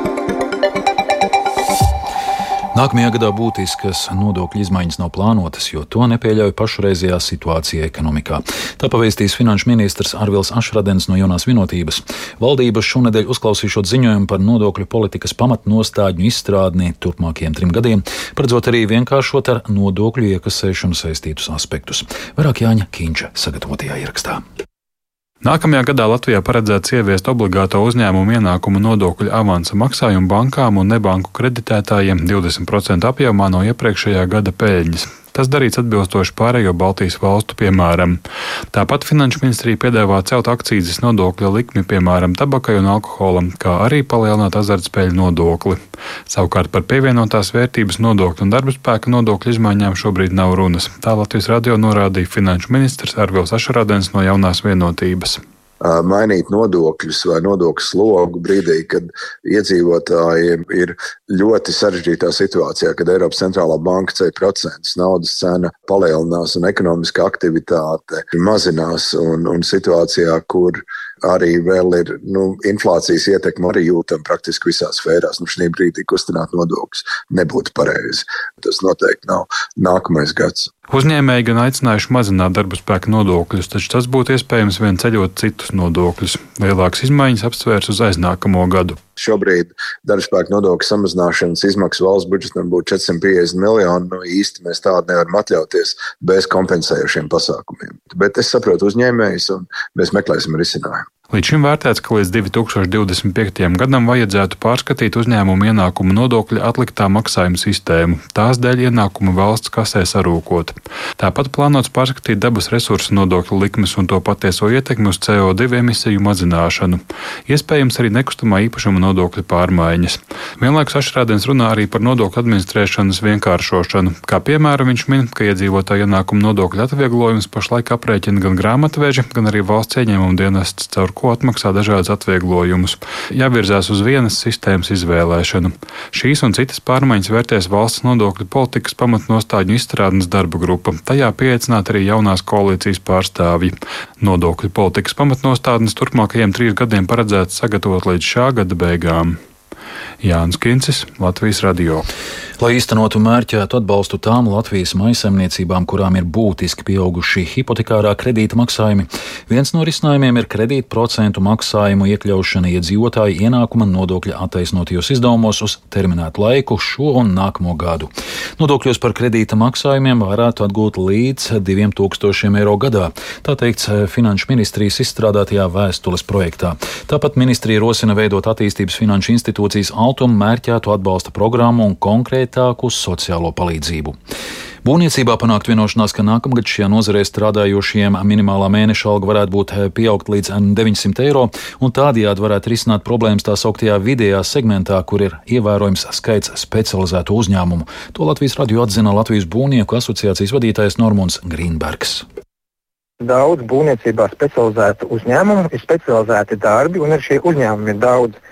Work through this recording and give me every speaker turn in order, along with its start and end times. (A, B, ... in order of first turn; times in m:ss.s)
0:02.8-0:24.4 A
0:25.4-0:38.2 B
0:38.7-0:55.4 B
0:55.8-1:20.7 C
1:20.9-1:29.0 B
1:29.2-1:41.0 C
1:41.3-2:29.4 B
2:30.2-2:32.1 B
2:32.6-3:04.2 A
3:04.8-3:22.2 A
3:23.2-3:28.4 D